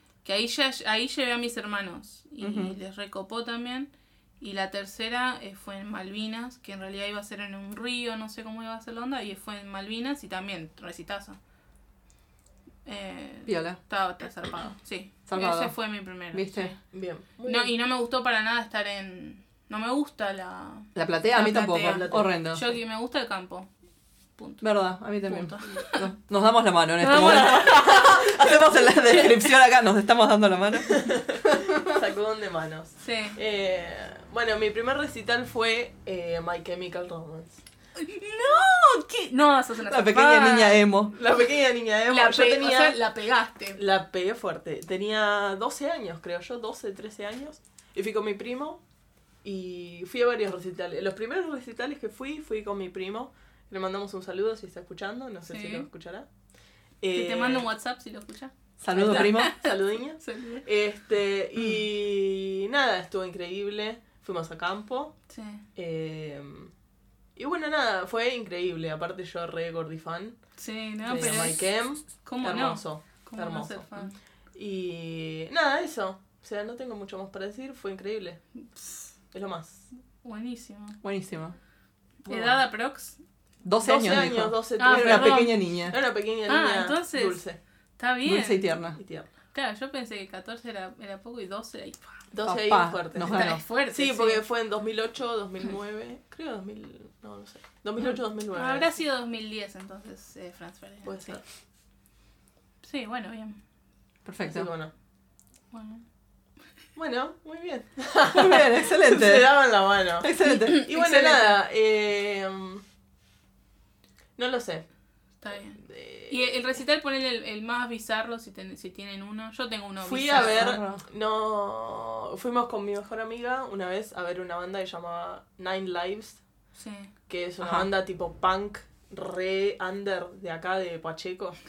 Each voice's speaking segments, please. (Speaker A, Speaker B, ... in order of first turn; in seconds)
Speaker A: 0.2-3.9, 4.4-11.4, 12.8-16.8, 17.4-23.7, 24.4-24.6, 25.2-26.1, 27.0-28.3, 33.0-33.4, 38.0-40.8, 42.1-43.8, 55.5-55.9, 57.1-60.6, 65.3-65.6, 70.6-74.2, 78.8-79.0, 80.2-81.0, 82.2-83.2, 84.8-85.6, 86.5-87.4, 88.0-88.7, 89.5-92.1, 93.2-94.4, 98.5-101.4, 102.8-103.6, 105.7-106.0, 110.4-111.5, 115.4-120.6, 126.8-127.1
Speaker B: 2.4-2.7, 13.5-13.8, 15.3-15.7, 16.3-16.7, 20.9-22.7, 24.6-32.0, 39.9-41.1, 58.8-59.5, 71.0-71.5, 81.0-81.5, 83.6-85.9, 88.2-89.0, 92.4-93.6, 104.2-104.7, 108.3-109.5, 110.2-110.9, 120.3-121.0, 127.6-127.9
Speaker C: 16.9-17.7, 21.9-22.2, 30.9-37.6, 41.1-43.0, 43.7-48.8, 49.4-56.3, 57.0-57.6, 58.9-65.2, 65.7-66.7, 67.3-70.5, 71.0-73.9, 74.5-78.4, 79.3-79.8, 82.3-82.5, 83.8-87.6, 89.0-89.3, 92.3-99.0, 101.0-101.4, 104.4-104.9, 107.0-112.8, 114.4-114.8, 115.8-116.5, 120.0-126.4, 127.3-131.6